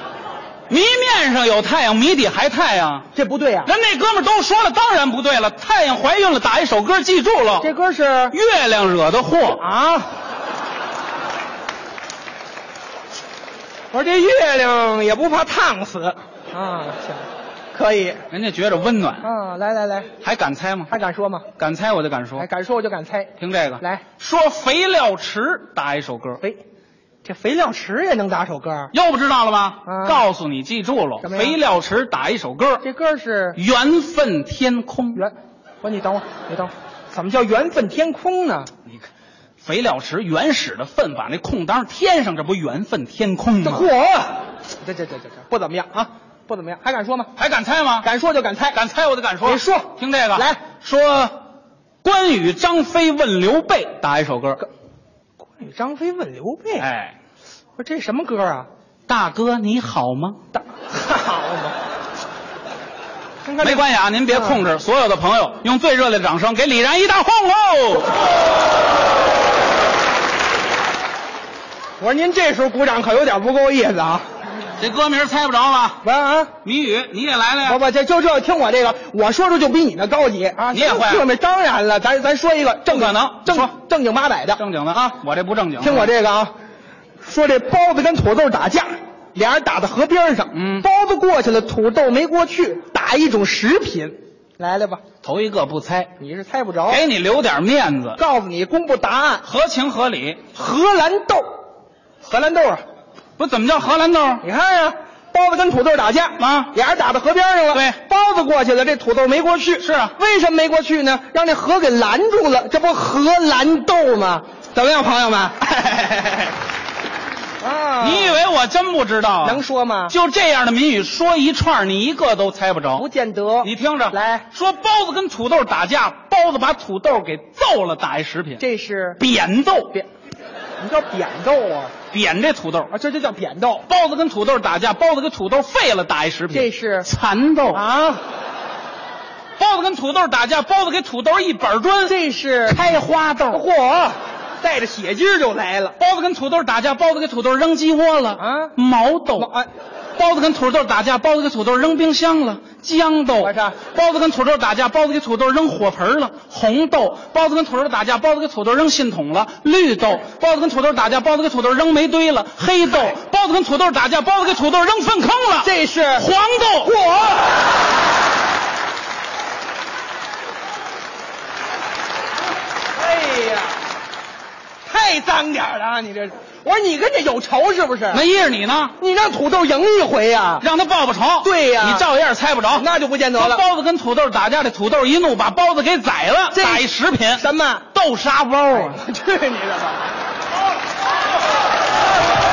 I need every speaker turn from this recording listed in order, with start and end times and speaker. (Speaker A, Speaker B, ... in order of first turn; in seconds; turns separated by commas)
Speaker A: 0.7-3.1, Speaker B: 3.1-3.7, Speaker A: 3.6-7.7, Speaker B: 7.6-8.4, Speaker A: 8.3-9.6, Speaker B: 9.5-10.1, Speaker B: 13.9-18.2, Speaker A: 18.3-19.3, Speaker B: 19.2-20.1, Speaker A: 20.2-20.9, Speaker B: 20.9-21.4, Speaker A: 21.6-22.5, Speaker B: 22.4-24.0, Speaker A: 23.4-26.4, Speaker B: 27.2-28.9, Speaker A: 28.9-32.8, Speaker B: 29.9-30.2, Speaker B: 31.2-31.6, Speaker B: 32.8-33.6, Speaker A: 33.5-35.2, Speaker B: 35.1-38.7, Speaker A: 39.6-43.9, Speaker B: 43.6-47.3, Speaker A: 47.4-48.1, Speaker B: 48.0-48.8, Speaker A: 48.7-51.4, Speaker B: 49.4-50.6, Speaker A: 52.0-54.6, Speaker B: 55.5-56.9, Speaker A: 56.8-57.2, Speaker B: 57.8-58.7, Speaker A: 59.1-60.4, Speaker B: 60.5-61.8, Speaker B: 63.4-64.6, Speaker A: 63.6-68.1, Speaker B: 72.0-74.2, Speaker A: 74.8-76.0, Speaker B: 76.0-76.5, Speaker A: 76.6-77.8, Speaker B: 77.6-85.0, Speaker A: 80.7-81.3, Speaker A: 82.9-83.7, Speaker A: 84.6-86.1, Speaker B: 85.8-86.5, Speaker B: 87.2-95.0, Speaker A: 90.5-90.9, Speaker A: 95.2-96.1, Speaker B: 96.2-97.0, Speaker A: 96.9-98.2, Speaker B: 98.2-99.5, Speaker A: 99.4-100.4, Speaker B: 100.5-101.5, Speaker B: 102.2-102.8, Speaker A: 103.4-104.4, Speaker B: 104.4-116.5, Speaker A: 106.4-106.7, Speaker A: 109.8-110.1, Speaker B: 117.6-118.4, Speaker A: 118.0-123.0, Speaker B: 119.4-120.2, Speaker B: 123.0-124.5, Speaker A: 123.6-128.6, Speaker B: 128.6-129.2, Speaker A: 129.2-129.9, Speaker B: 130.8-131.9, Speaker A: 132.1-132.9, Speaker B: 132.9-133.8, Speaker A: 133.9-137.8, Speaker B: 136.5-137.1, Speaker B: 137.7-138.2, Speaker A: 139.6-142.1, Speaker B: 142.0-142.8, Speaker A: 142.7-143.6, Speaker B: 143.5-145.9, Speaker A: 146.0-149.5, Speaker B: 148.4-148.7, Speaker B: 149.4-149.7, Speaker A: 150.2-166.9, Speaker B: 153.4-153.8, Speaker B: 165.6-166.3, Speaker B: 166.8-167.5, Speaker B: 173.0-173.7, Speaker B: 174.8-178.2, Speaker A: 178.1-178.9, Speaker B: 179.0-180.7, Speaker A: 180.6-189.0, Speaker B: 181.4-182.1, Speaker B: 182.7-183.6, Speaker B: 186.5-187.9, Speaker B: 188.7-190.1